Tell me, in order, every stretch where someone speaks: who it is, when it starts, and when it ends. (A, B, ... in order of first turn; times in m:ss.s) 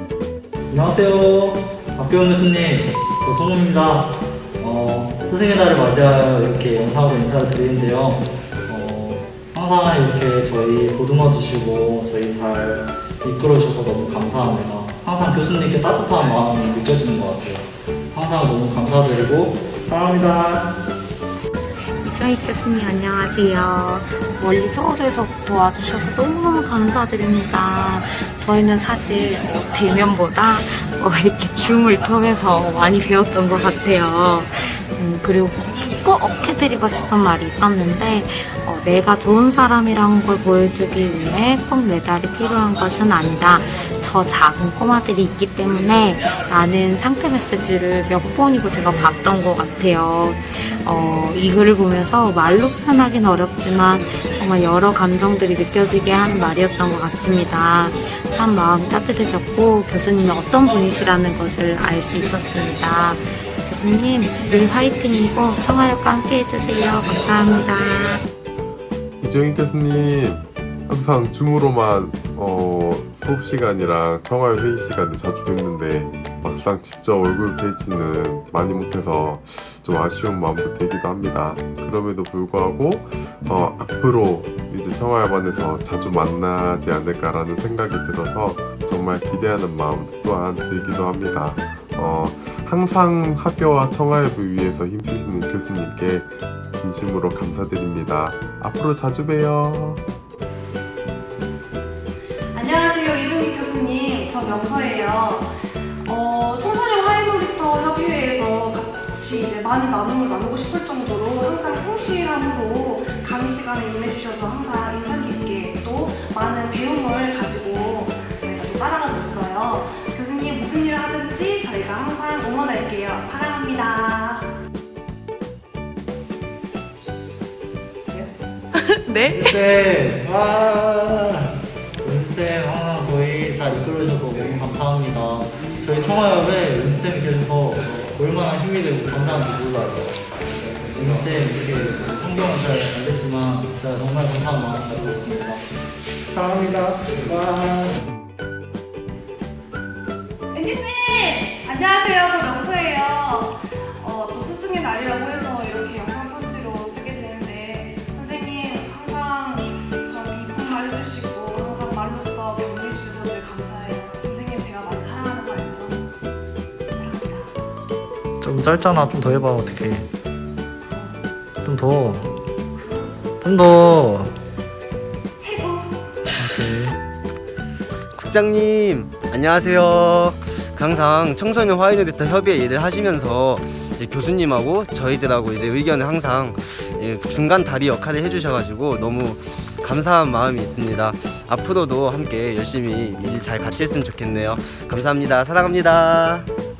0:00.7-0:20.8 A
0:22.0-1:08.2 B
1:09.2-1:40.0 C
1:42.5-2:04.5 D
2:09.2-2:25.6 A
2:26.3-2:28.0 A
2:30.5-2:46.1 D
2:46.9-2:47.5 D
2:48.4-2:50.1 A
2:50.8-2:51.2 D
2:51.6-2:52.4 A
2:52.8-2:53.2 D
2:53.4-2:54.4 A
2:55.4-2:55.9 D
2:56.4-2:56.9 A
2:58.1-3:16.5 E